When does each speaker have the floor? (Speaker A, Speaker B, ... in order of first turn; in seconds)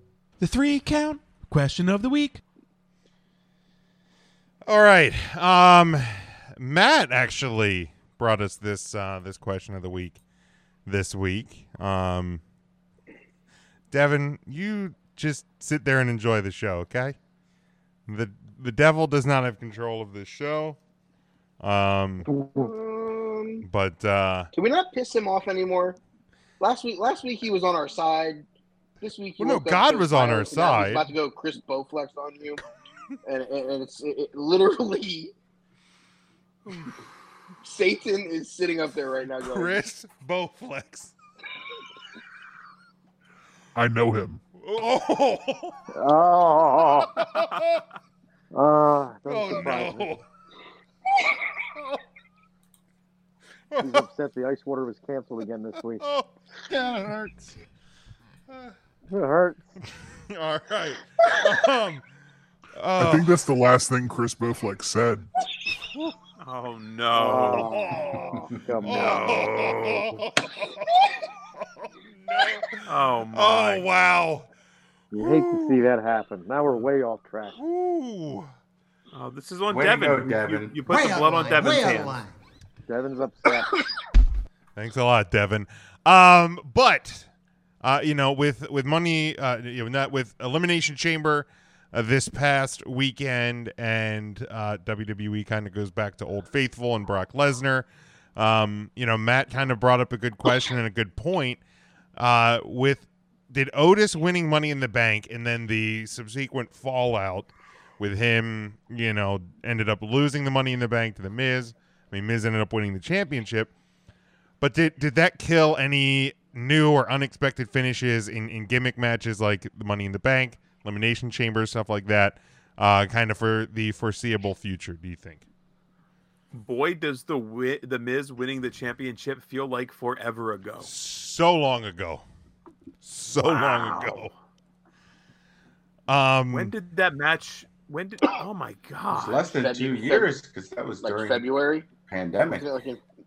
Speaker A: 0.4-2.4, 80.8-82.3
Speaker B: 4.7-10.2, 10.8-12.4, 13.9-17.1, 18.1-20.8, 21.6-22.3, 23.6-24.5, 29.4-31.0, 39.4-41.1, 44.6-45.8, 47.0-47.8, 49.3-50.2, 53.7-54.0, 56.0-57.5, 60.3-62.0, 62.7-63.3, 67.3-74.5, 75.2-75.8, 77.5-78.5, 84.8-87.3, 87.8-101.6, 102.2-113.7, 114.6-125.4, 130.8-132.2, 133.0-134.3, 136.1-136.7
Speaker C: 22.3-22.7, 45.9-47.1, 48.5-50.1, 53.8-56.0, 59.1-59.6, 67.1-69.7, 75.1-77.6, 82.9-83.7
Speaker D: 22.5-23.6, 24.5-26.0, 26.6-28.4, 29.0-32.6, 33.2-35.3, 37.6-39.8, 139.5-140.3, 141.0-141.9, 142.5-143.0
Speaker E: 43.7-44.4, 63.0-65.3
Speaker F: 47.4-47.6, 66.4-67.7, 68.9-70.0, 72.8-73.9, 79.1-82.2, 126.5-130.9, 133.4-134.3, 136.5-139.4
Speaker G: 79.7-80.8, 139.1-141.4, 142.1-142.7